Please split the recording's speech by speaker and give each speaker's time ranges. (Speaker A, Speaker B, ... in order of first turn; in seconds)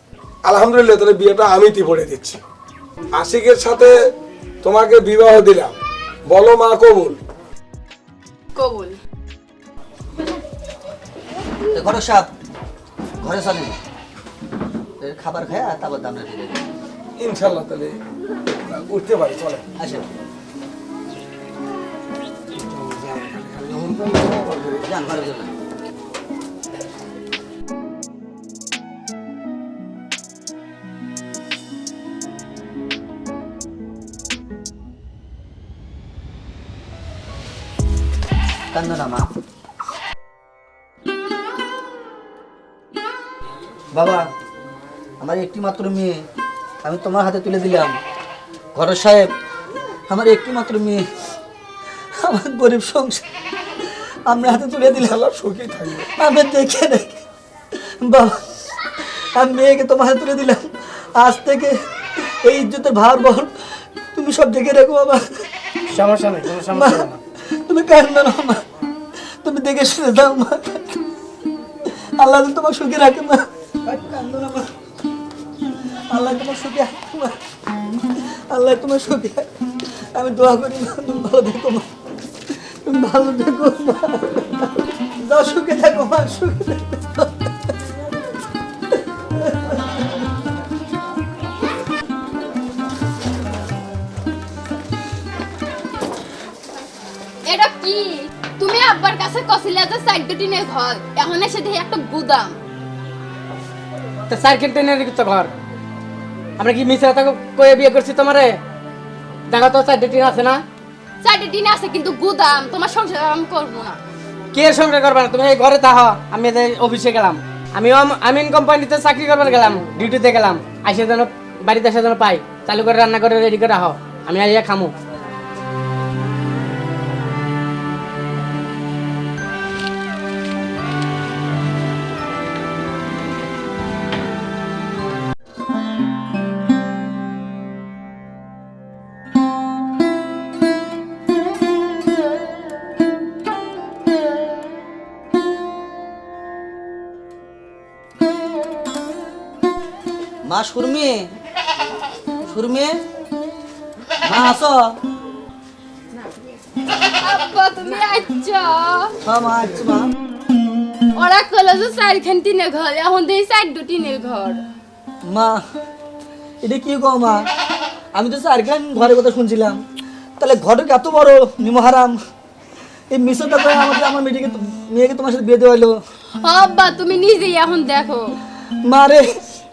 Speaker A: 0.5-2.4, 3.1-3.9, 4.6-5.7, 6.3-7.2, 17.2-18.0, 18.6-19.6, 22.5-24.8, 55.0-56.1
Speaker B: 8.5-9.0, 97.4-102.6, 111.2-114.0, 156.9-159.1, 161.1-164.6, 176.4-178.3
Speaker C: 11.7-12.3, 13.2-13.8, 15.0-16.7, 19.8-20.1, 24.8-25.5, 38.7-39.3, 43.9-44.3, 45.2-46.2, 46.8-48.0, 48.7-49.3, 50.1-51.0, 52.2-53.2, 53.8-55.2, 55.9-57.2, 57.7-65.2, 66.7-68.6, 69.4-71.0, 71.8-74.7, 76.1-77.3, 78.0-81.9, 82.5-87.4, 89.4-89.8, 150.4-151.3, 152.4-153.0, 154.2-154.9, 159.2-160.1, 165.3-165.6, 166.6-167.4, 168.1-169.8, 170.4-172.1, 173.1-175.9, 178.8-179.3
Speaker D: 65.9-67.2, 104.3-105.5, 106.6-108.6, 109.5-110.6, 114.5-124.9